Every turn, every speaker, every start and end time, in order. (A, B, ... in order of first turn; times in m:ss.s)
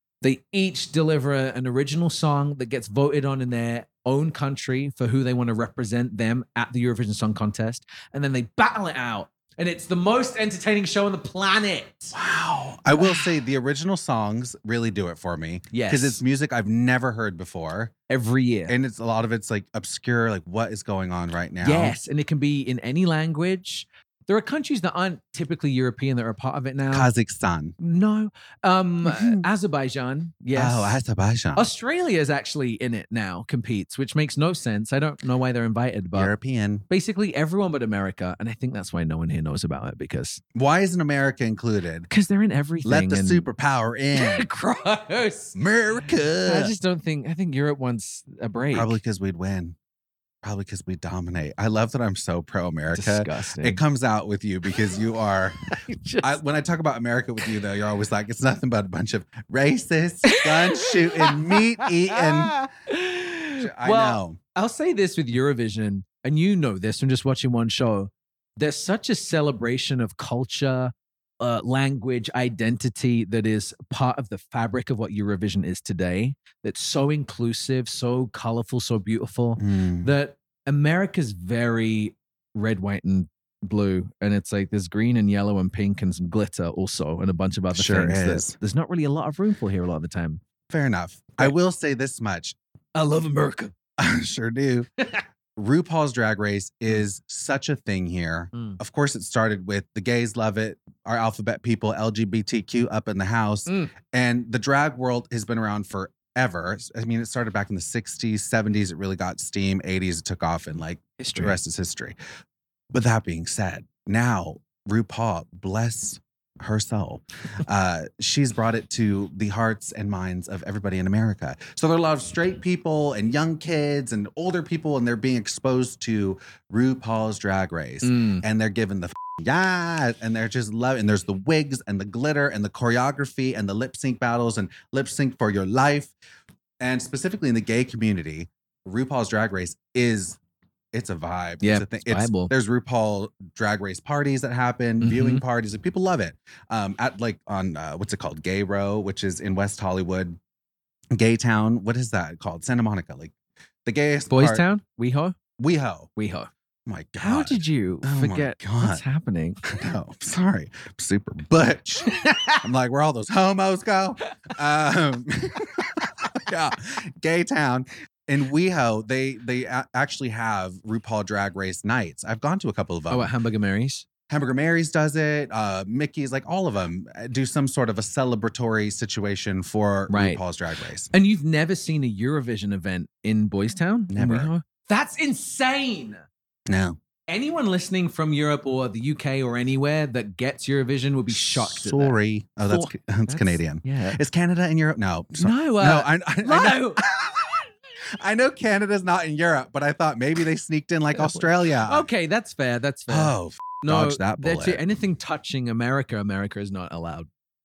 0:00.2-0:12.2 A
0:12.1-0:17.9 B
0:12.9-0:13.2 A
0:15.7-0:16.2 A
0:18.1-0:18.8 A
0:18.7-0:22.0 B
0:21.6-0:27.1 A
0:26.9-0:27.8 B
0:27.8-0:31.0 A
0:29.0-0:29.4 B
0:30.5-0:31.7 B
0:31.6-0:36.3 A
0:36.2-0:36.9 B
0:36.9-0:40.4 A
0:40.6-0:42.1 B
0:42.1-0:43.5 A
0:42.8-0:44.5 B
0:44.2-0:45.6 A
0:45.6-0:46.7 B
0:46.4-0:49.0 A
0:48.7-0:49.8 B
0:50.4-0:55.6 B
0:52.9-0:53.8 A
0:55.7-0:56.4 A
0:56.2-1:02.6 B
1:00.3-1:30.4 A
1:03.6-1:04.4 B
1:19.6-1:20.1 B
1:27.7-1:28.6 B
1:30.7-1:32.6 B
1:33.0-1:33.7 A
1:34.0-1:34.9 B
1:35.6-1:52.2 B
1:38.5-1:38.8 A
1:43.7-1:43.9 A
1:51.2-1:51.6 A
1:52.9-2:16.1 B
2:08.0-2:08.4 A
2:16.8-2:20.4 B
2:20.9-2:30.4 B
2:21.6-2:22.5 A
2:25.0-2:25.4 A
2:31.1-2:33.3 B
2:33.8-2:34.6 B
2:34.3-2:35.4 A
2:35.6-2:36.1 B
2:36.2-2:36.5 A
2:36.9-2:39.0 B
2:37.2-2:39.6 A
2:39.6-2:53.3 B
2:42.1-2:42.6 A
2:53.1-2:54.1 A
2:54.3-3:01.1 B
3:00.1-3:00.4 A
3:01.1-3:06.3 A
3:04.1-3:04.5 B
3:06.7-3:07.0 B
3:07.3-3:14.2 A
3:11.3-3:17.6 B
3:15.4-3:17.0 A
3:18.1-3:22.1 B
3:21.2-3:27.3 A
3:23.1-3:24.8 B